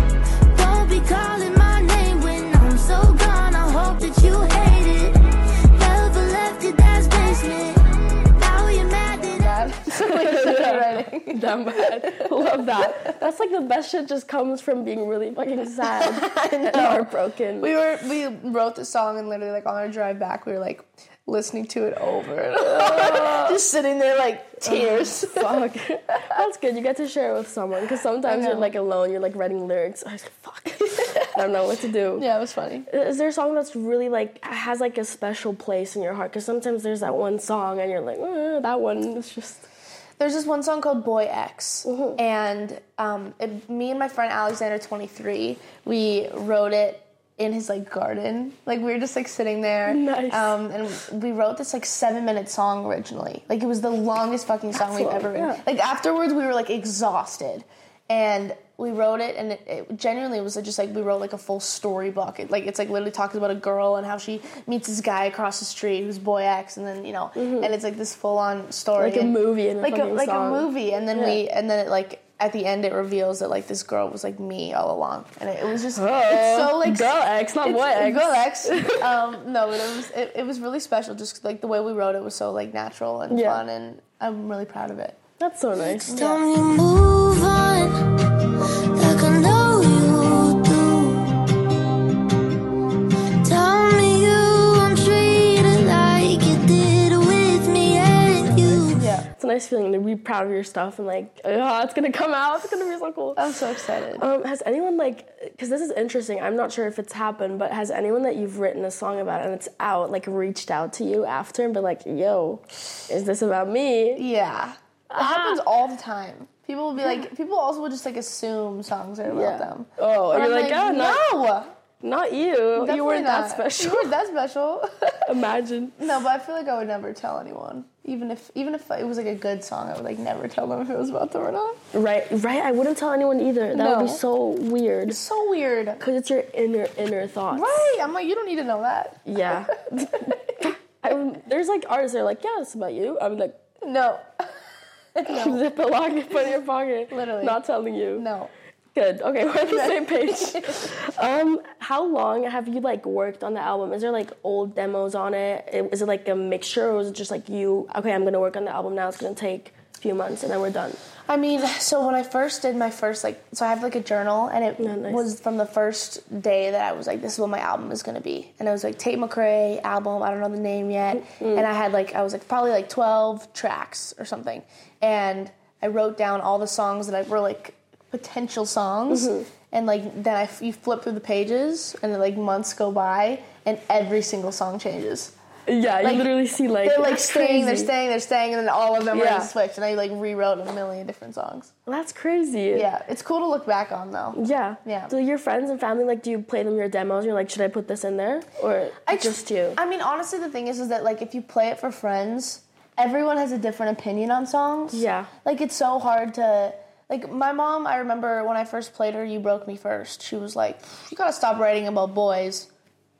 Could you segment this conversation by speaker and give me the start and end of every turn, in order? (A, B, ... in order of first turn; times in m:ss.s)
0:00.5-0:09.7 A
0:09.2-0:13.2 B
0:09.9-0:17.7 C
0:15.8-0:25.6 B
0:22.6-0:23.6 C
0:24.6-0:32.2 C
0:28.2-0:28.7 B
0:32.2-0:32.9 B
0:32.9-0:39.6 C
0:40.2-1:25.2 B
0:41.8-0:42.2 C
0:49.9-0:50.6 C
0:54.7-0:55.6 C
1:07.4-1:07.7 C
1:09.0-1:11.4 C
1:16.0-1:19.1 C
1:23.3-1:23.6 C
1:25.4-1:26.2 C
1:25.9-1:26.4 B
1:26.1-1:28.0 A
1:28.9-1:31.6 A
1:33.4-1:39.0 A
1:38.5-1:39.3 B
1:39.4-1:43.4 C
1:43.4-1:44.2 B
1:44.2-1:54.2 C
1:54.2-2:01.7 B
1:55.1-1:55.6 C
1:59.3-2:01.2 C
2:02.0-2:04.1 C
2:02.8-2:05.3 B
2:05.3-2:06.0 C
2:06.0-2:11.8 B
2:11.9-2:15.2 C
2:13.7-2:14.2 B
2:15.0-2:16.0 B
2:16.0-2:17.8 C
2:17.5-2:20.7 B
2:19.2-2:23.6 C
2:23.8-2:24.4 B
2:25.1-2:25.6 B
2:25.2-2:28.2 C
2:27.1-2:27.6 B
2:28.2-2:28.5 B
2:28.9-2:41.0 C
2:29.6-2:30.9 B
2:41.3-3:05.3 B
2:44.8-2:45.2 C
2:51.2-2:51.7 C
2:59.1-2:59.5 C
3:05.7-3:07.9 C
3:06.0-3:11.7 B
3:09.1-3:09.5 C
3:11.9-3:12.9 C
3:12.7-3:15.1 B
3:14.4-3:19.8 C
3:19.0-3:32.7 B
3:24.9-3:25.3 C